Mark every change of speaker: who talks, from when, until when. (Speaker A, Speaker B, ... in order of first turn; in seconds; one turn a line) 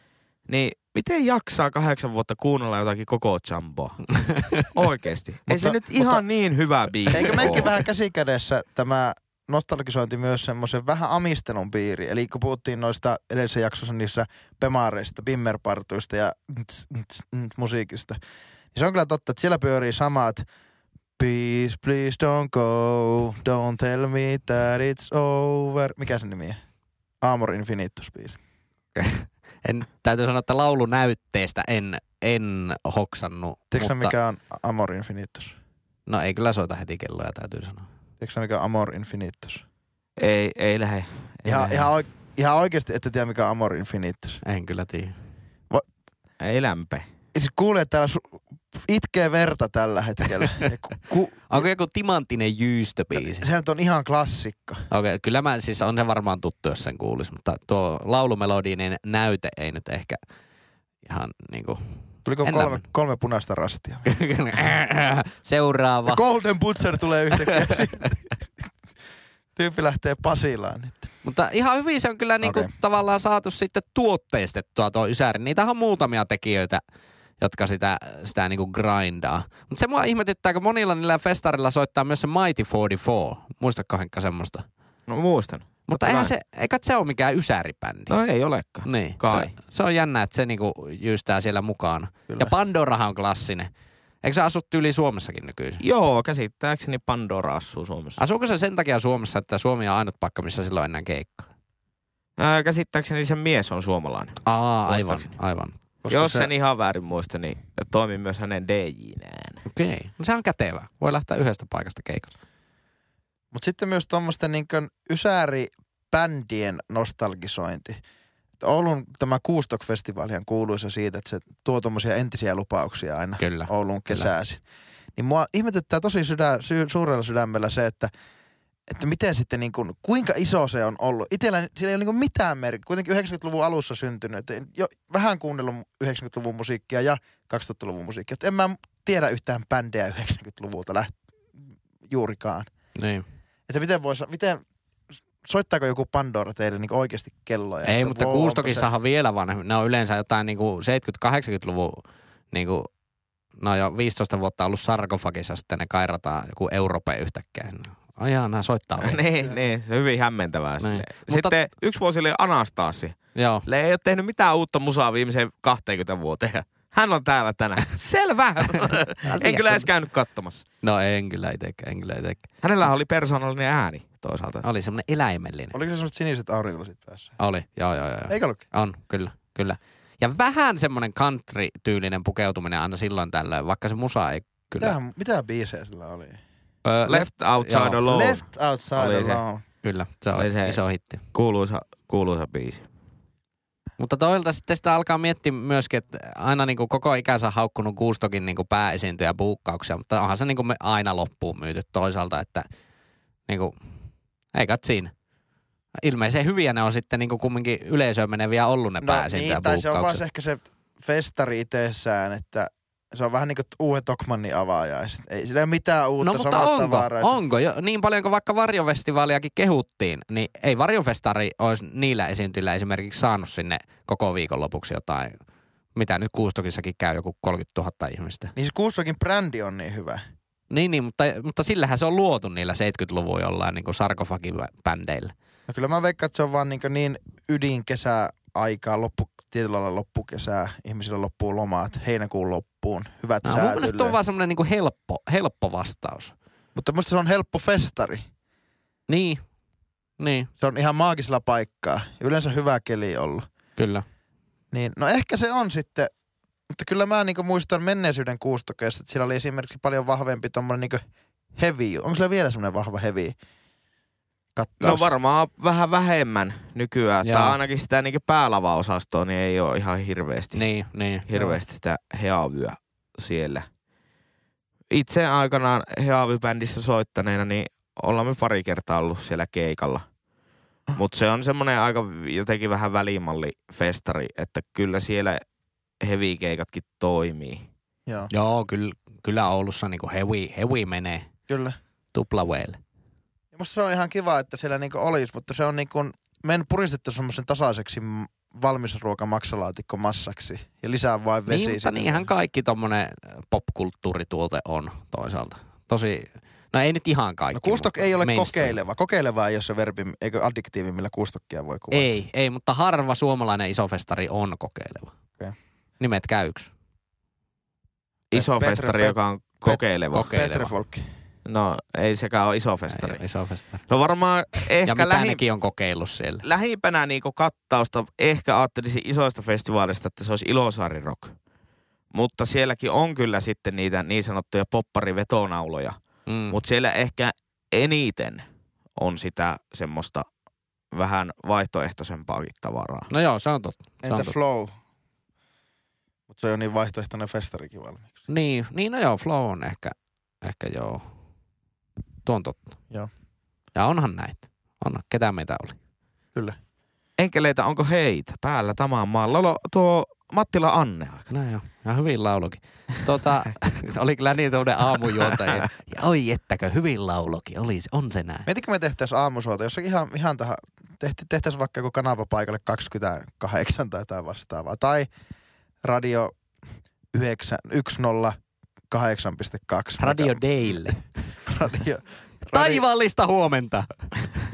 Speaker A: 0.5-7.7
Speaker B: 4.2-4.7
Speaker C: 5.5-6.2
Speaker C: 7.1-18.2
Speaker C: 18.7-20.4
Speaker C: 21.2-26.6
Speaker C: 27.2-28.4
Speaker B: 28.9-34.1
Speaker C: 33.7-35.5
Speaker B: 36.1-37.9
Speaker C: 38.2-39.6
Speaker A: 40.2-41.9
Speaker C: 41.5-44.4
Speaker B: 44.4-45.1
Speaker A: 46.4-47.1
Speaker C: 47.3-51.7
Speaker B: 51.5-53.5
Speaker C: 53.1-54.9
Speaker B: 54.9-60.2
Speaker B: 61.0-61.8
Speaker C: 62.2-64.1
Speaker B: 62.4-62.8
Speaker B: 64.1-66.2
Speaker C: 66.1-68.2
Speaker B: 67.3-68.1
Speaker C: 69.6-71.1
Speaker B: 71.2-76.8
Speaker C: 72.4-72.7
Speaker B: 77.4-84.7
Speaker A: 85.1-86.3
Speaker B: 85.9-88.2
Speaker A: 88.1-89.5
Speaker B: 88.8-93.7
Speaker B: 94.2-95.8
Speaker A: 95.8-98.2
Speaker B: 98.2-101.5
Speaker A: 102.4-105.3
Speaker B: 104.5-105.7
Speaker C: 106.0-106.5
Speaker A: 106.1-109.6
Speaker B: 109.7-112.3
Speaker C: 113.5-118.0
Speaker C: 118.6-124.6
Speaker B: 123.4-124.3
Speaker C: 125.2-128.1
Speaker C: 128.9-141.2
Speaker C: 142.1-142.7
Speaker B: 143.0-143.2
Speaker C: 143.7-144.6
Speaker C: 145.4-148.9
Speaker B: 147.8-152.9
Speaker B: 153.6-159.2
Speaker A: 159.0-170.6
Speaker B: 160.8-161.6
Speaker B: 163.3-163.7
Speaker B: 168.7-169.9
Speaker B: 170.8-172.4
Speaker A: 172.6-174.7
Speaker B: 174.6-175.8
Speaker C: 175.7-177.4
Speaker B: 177.4-185.0
Speaker C: 178.3-178.6
Speaker C: 184.8-186.4
Speaker B: 186.8-188.0
Speaker A: 187.1-188.4
Speaker C: 188.1-189.6
Speaker A: 189.0-189.4
Speaker B: 189.8-191.2
Speaker A: 190.4-190.8
Speaker A: 191.3-192.8
Speaker B: 194.0-202.7
Speaker B: 203.5-203.8
Speaker B: 204.5-205.1
Speaker B: 206.0-210.2
Speaker C: 209.0-217.4
Speaker B: 216.2-225.4
Speaker B: 225.9-228.5
Speaker C: 228.6-230.2
Speaker B: 230.7-235.3
Speaker C: 235.7-244.2
Speaker B: 243.4-246.3
Speaker C: 246.8-248.2
Speaker B: 249.1-249.5
Speaker B: 250.2-250.5
Speaker C: 250.6-253.5
Speaker B: 253.8-254.1
Speaker C: 254.7-256.1
Speaker C: 256.7-261.0
Speaker C: 261.6-263.4
Speaker C: 264.6-265.1
Speaker A: 264.8-270.6
Speaker B: 267.2-267.6
Speaker B: 270.6-271.2
Speaker A: 271.3-273.7
Speaker A: 274.9-280.1
Speaker A: 280.9-285.4
Speaker A: 286.0-287.7
Speaker B: 288.3-291.3
Speaker C: 291.5-291.8
Speaker B: 292.1-292.8
Speaker C: 293.5-302.3
Speaker B: 301.5-308.8
Speaker C: 307.5-312.1
Speaker B: 311.9-315.1
Speaker B: 316.0-316.7
Speaker A: 318.3-320.3
Speaker C: 318.3-321.0
Speaker B: 320.1-320.7
Speaker A: 321.4-323.2
Speaker B: 322.9-323.9
Speaker A: 323.9-325.4
Speaker B: 324.9-326.4
Speaker A: 326.4-331.4
Speaker A: 332.1-336.0
Speaker B: 336.3-336.6
Speaker A: 336.5-338.4
Speaker A: 339.0-340.3
Speaker A: 340.9-343.1
Speaker B: 343.1-344.4
Speaker C: 344.0-344.7
Speaker C: 346.3-348.1
Speaker B: 348.3-351.1
Speaker B: 352.3-352.8
Speaker B: 353.8-355.8
Speaker A: 357.2-361.3
Speaker B: 361.3-368.5
Speaker C: 368.5-375.1
Speaker C: 375.8-376.4
Speaker C: 377.1-378.4
Speaker C: 378.9-380.4
Speaker B: 380.0-381.0
Speaker C: 381.5-382.8
Speaker B: 382.5-384.1